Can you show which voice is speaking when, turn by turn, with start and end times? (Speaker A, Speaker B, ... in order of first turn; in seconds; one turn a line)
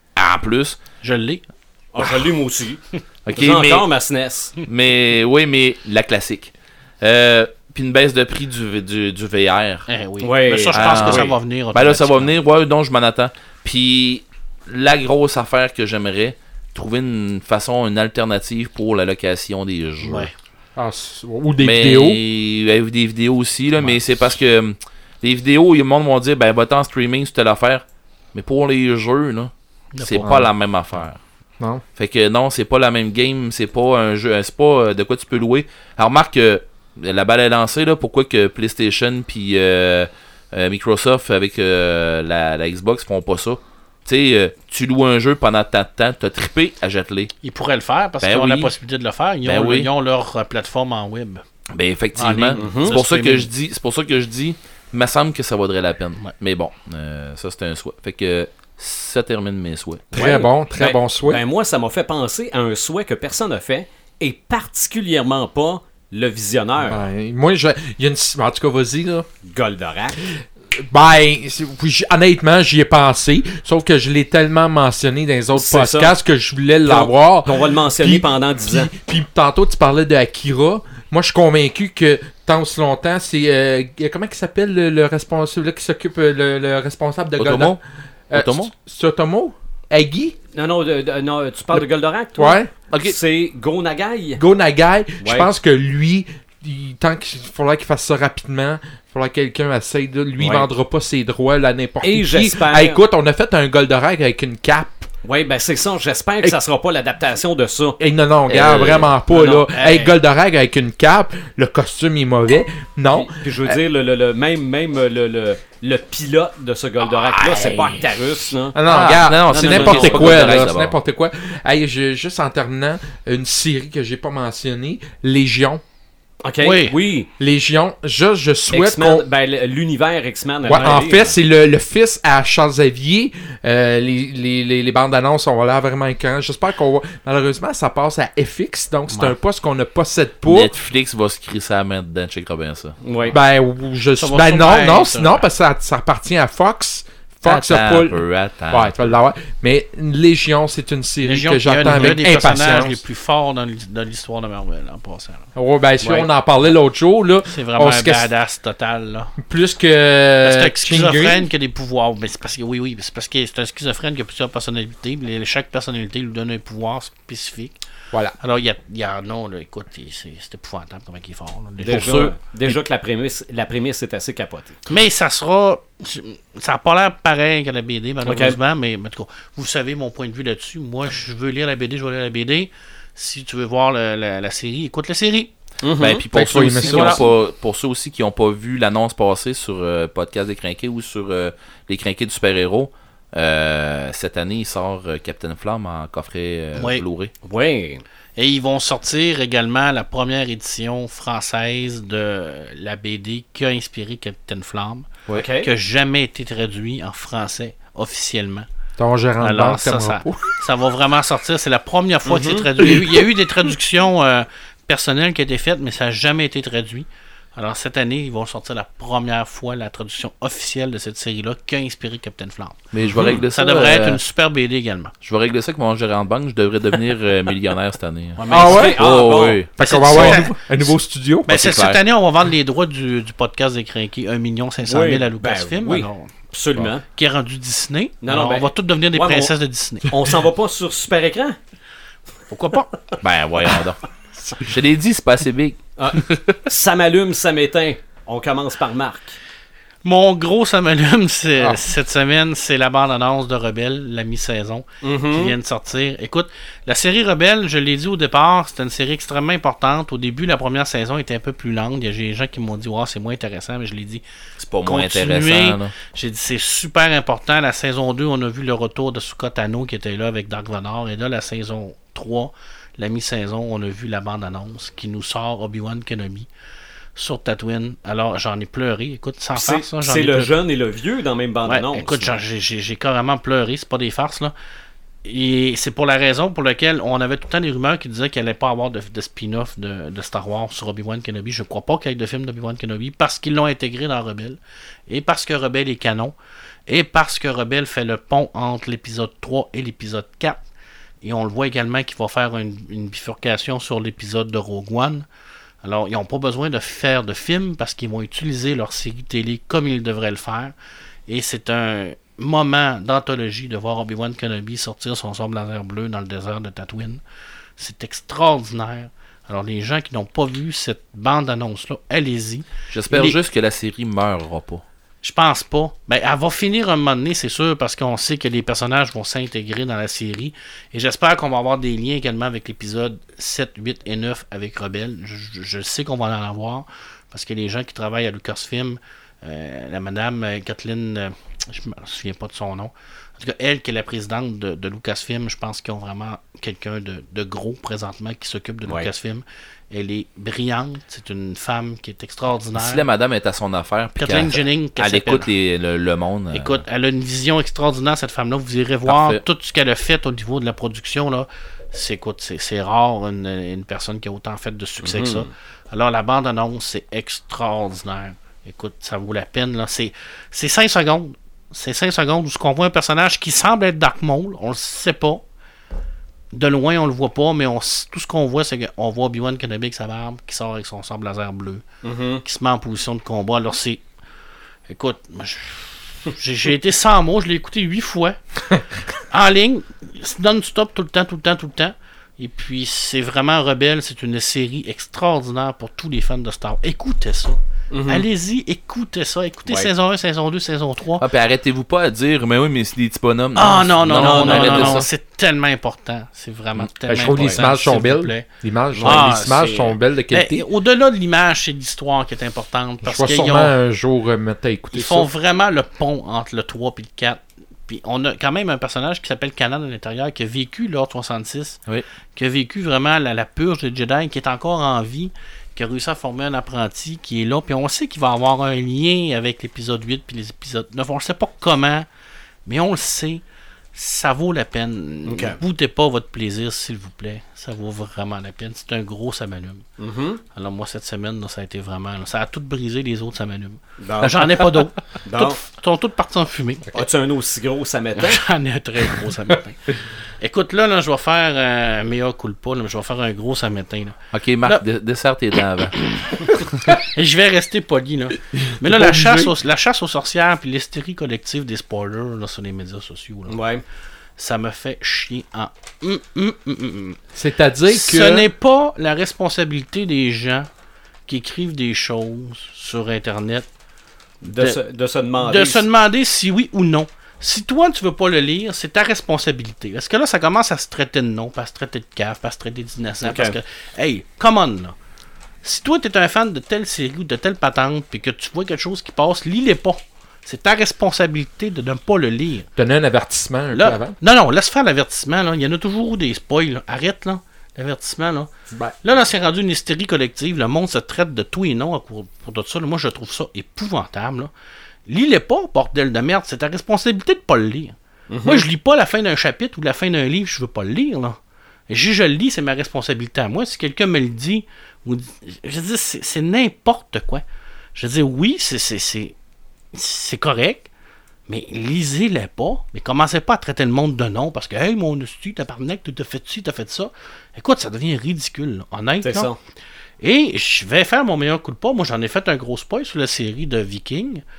Speaker A: 0.2-0.8
Speaker B: 1.0-1.4
Speaker C: 1.9-2.8
Speaker A: 3.2-3.9
Speaker C: 3.4-4.5
Speaker A: 4.7-9.9
Speaker B: 9.9-12.3
Speaker C: 10.2-11.3
Speaker A: 10.7-20.3
Speaker B: 20.0-20.3
Speaker D: 20.8-22.2
Speaker A: 21.6-31.2
Speaker B: 29.9-30.5
Speaker A: 32.0-47.3
Speaker B: 47.4-51.4
Speaker A: 48.2-48.7
Speaker A: 49.4-49.9
Speaker A: 51.7-60.1
Speaker B: 52.2-53.5
Speaker C: 52.6-53.0
Speaker D: 60.1-61.4
Speaker C: 60.1-67.0
Speaker D: 66.9-69.3
Speaker C: 69.4-70.2
Speaker D: 70.8-90.3
Speaker C: 75.5-76.2
Speaker C: 76.8-78.9
Speaker A: 87.4-87.8
Speaker A: 88.3-88.7
Speaker C: 90.5-94.4
Speaker D: 92.4-92.7
Speaker A: 92.9-93.2
Speaker D: 94.4-105.1
Speaker C: 95.2-95.5
Speaker C: 100.4-100.7
Speaker C: 102.0-103.0
Speaker C: 105.2-108.0
Speaker D: 108.0-113.8
Speaker A: 108.5-109.1
Speaker C: 109.2-109.7
Speaker B: 109.7-110.2
Speaker C: 113.1-118.8
Speaker D: 117.5-118.0
Speaker D: 118.7-125.8
Speaker A: 118.9-121.0
Speaker B: 118.9-119.2
Speaker C: 119.5-120.7
Speaker C: 126.4-127.3
Speaker B: 126.6-127.0
Speaker D: 127.4-129.3
Speaker C: 128.7-131.4
Speaker D: 130.6-140.7
Speaker A: 140.4-143.0
Speaker C: 143.0-143.4
Speaker D: 143.3-153.0
Speaker B: 144.2-145.4
Speaker A: 147.4-149.1
Speaker B: 151.2-155.5
Speaker C: 151.8-152.2
Speaker D: 155.6-158.3
Speaker B: 156.0-156.3
Speaker B: 157.5-159.3
Speaker D: 159.4-161.5
Speaker B: 160.4-167.8
Speaker B: 168.4-172.3
Speaker C: 171.8-174.8
Speaker D: 171.9-172.3
Speaker B: 174.9-185.5
Speaker C: 178.2-178.6
Speaker C: 185.8-186.2
Speaker A: 186.0-197.3
Speaker D: 186.3-187.2
Speaker B: 186.8-187.2
Speaker B: 196.8-197.0
Speaker C: 197.4-198.0
Speaker B: 198.4-208.7
Speaker C: 205.3-205.7
Speaker D: 209.0-210.5
Speaker B: 209.4-222.8
Speaker C: 212.3-212.7
Speaker A: 222.9-224.2
Speaker B: 223.5-225.1
Speaker A: 225.2-230.5
Speaker B: 228.4-228.9
Speaker C: 228.4-229.6
Speaker D: 228.5-229.1
Speaker D: 229.8-231.5
Speaker B: 229.8-230.6
Speaker B: 231.5-236.3
Speaker A: 231.5-232.0
Speaker C: 234.8-237.1
Speaker B: 237.1-240.2
Speaker C: 238.2-241.6
Speaker B: 242.5-242.9
Speaker A: 243.2-244.0
Speaker A: 244.6-246.4
Speaker C: 246.0-249.4
Speaker B: 250.0-264.2
Speaker C: 255.0-255.6
Speaker A: 264.6-265.9
Speaker B: 264.9-276.5
Speaker B: 277.1-280.5
Speaker C: 279.6-282.4
Speaker B: 281.7-284.6
Speaker B: 285.2-296.4
Speaker B: 296.9-300.6
Speaker B: 301.2-305.3
Speaker B: 305.8-310.7
Speaker B: 311.3-317.2
Speaker B: 317.8-323.4
Speaker A: 322.9-324.8
Speaker B: 325.2-353.0
Speaker A: 352.8-356.8
Speaker B: 354.2-355.5
Speaker B: 356.5-375.4
Speaker A: 359.1-359.4
Speaker C: 365.0-365.5
Speaker B: 376.5-381.8
Speaker C: 382.0-382.4
Speaker B: 382.4-384.0
Speaker B: 384.9-388.4
Speaker B: 389.3-401.2
Speaker C: 397.9-398.2
Speaker A: 401.2-405.1
Speaker B: 403.6-408.5
Speaker C: 404.1-405.1
Speaker D: 407.1-410.7
Speaker C: 407.3-407.6
Speaker C: 408.9-409.3
Speaker B: 409.0-413.7
Speaker D: 413.0-415.3
Speaker B: 414.9-421.8
Speaker B: 422.4-432.1
Speaker B: 432.6-433.4
Speaker B: 433.9-439.9
Speaker C: 435.2-435.6
Speaker C: 440.0-440.4
Speaker B: 440.5-447.0
Speaker C: 444.0-444.7
Speaker C: 445.2-445.6
Speaker C: 446.9-448.4
Speaker B: 448.2-454.8
Speaker A: 454.3-456.0
Speaker B: 456.4-463.6
Speaker D: 458.8-459.5
Speaker C: 463.5-463.8
Speaker B: 464.4-467.2
Speaker D: 467.4-468.5
Speaker B: 467.9-470.7
Speaker B: 471.3-473.7
Speaker C: 474.4-475.9
Speaker B: 474.4-474.8
Speaker B: 475.4-484.9
Speaker C: 483.2-483.6
Speaker B: 485.6-492.7
Speaker D: 492.8-494.2
Speaker B: 493.7-504.5
Speaker B: 505.1-511.4
Speaker C: 508.3-508.6
Speaker B: 511.9-519.4
Speaker B: 519.9-520.9
Speaker B: 521.5-529.5
Speaker C: 529.2-529.6
Speaker B: 530.2-534.4